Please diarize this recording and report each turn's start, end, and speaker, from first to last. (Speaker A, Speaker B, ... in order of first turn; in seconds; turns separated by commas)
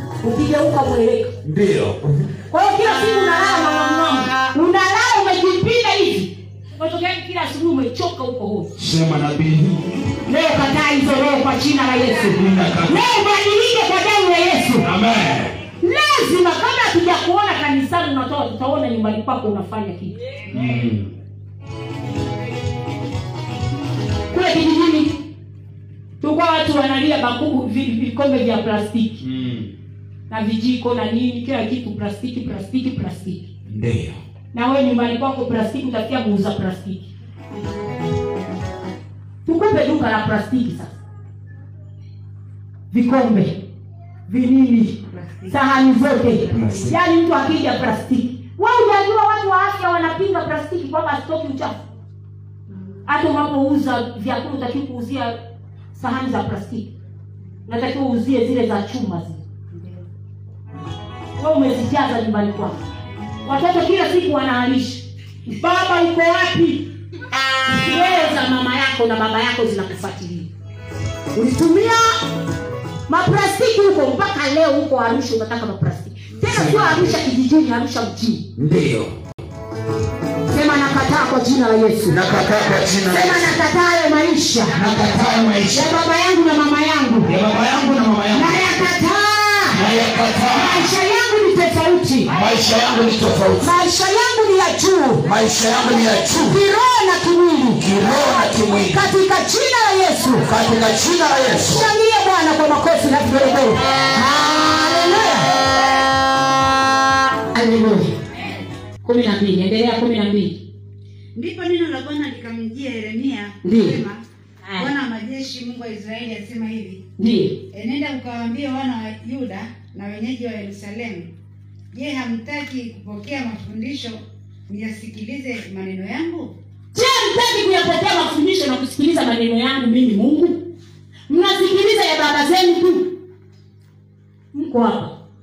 Speaker A: 0.2-1.4, Speaker B: 1.4-2.3, Speaker A: 2.5-8.7, Speaker B: 8.8-10.3, Speaker A: 10.2-14.9, Speaker B: 12.2-13.0, Speaker B: 14.8-15.6, Speaker A: 15.8-20.4, Speaker B: 20.5-21.1, Speaker A: 24.3-25.3, Speaker A: 26.2-29.2, Speaker B: 29.2-29.7, Speaker A: 30.3-33.5, Speaker B: 33.6-34.2, Speaker A: 34.5-37.1, Speaker A: 39.5-41.0, Speaker A: 42.9-43.6, Speaker A: 44.3-51.8, Speaker C: 45.1-45.5, Speaker B: 46.4-47.1, Speaker C: 52.7-53.0, Speaker A: 53.0-55.4, Speaker A: 55.9-56.9, Speaker A: 57.7-59.4, Speaker C: 59.7-60.0, Speaker A: 61.4-62.8, Speaker A: 63.4-66.9, Speaker A: 67.7-70.5, Speaker A: 71.3-72.3, Speaker A: 73.1-78.5, Speaker B: 76.4-77.2, Speaker B: 78.5-79.2, Speaker A: 80.5-82.2, Speaker B: 82.0-83.6, Speaker A: 83.1-84.8, Speaker B: 84.7-86.0, Speaker A: 85.7-87.3, Speaker B: 87.2-88.7, Speaker A: 88.3-89.8, Speaker B: 89.7-90.9, Speaker A: 90.5-92.3, Speaker B: 92.3-93.7, Speaker A: 93.6-95.2, Speaker B: 95.2-96.6, Speaker A: 96.4-97.9, Speaker B: 97.8-99.1, Speaker A: 98.6-100.5, Speaker B: 100.4-101.9, Speaker A: 101.6-105.5, Speaker A: 107.5-108.2, Speaker A: 109.0-110.6, Speaker C: 111.3-114.2, Speaker A: 113.6-114.0, Speaker C: 114.8-117.0, Speaker A: 117.2-117.6, Speaker C: 117.7-121.3, Speaker C: 121.9-126.5, Speaker A: 126.9-130.7, Speaker A: 131.3-133.2, Speaker A: 134.5-135.2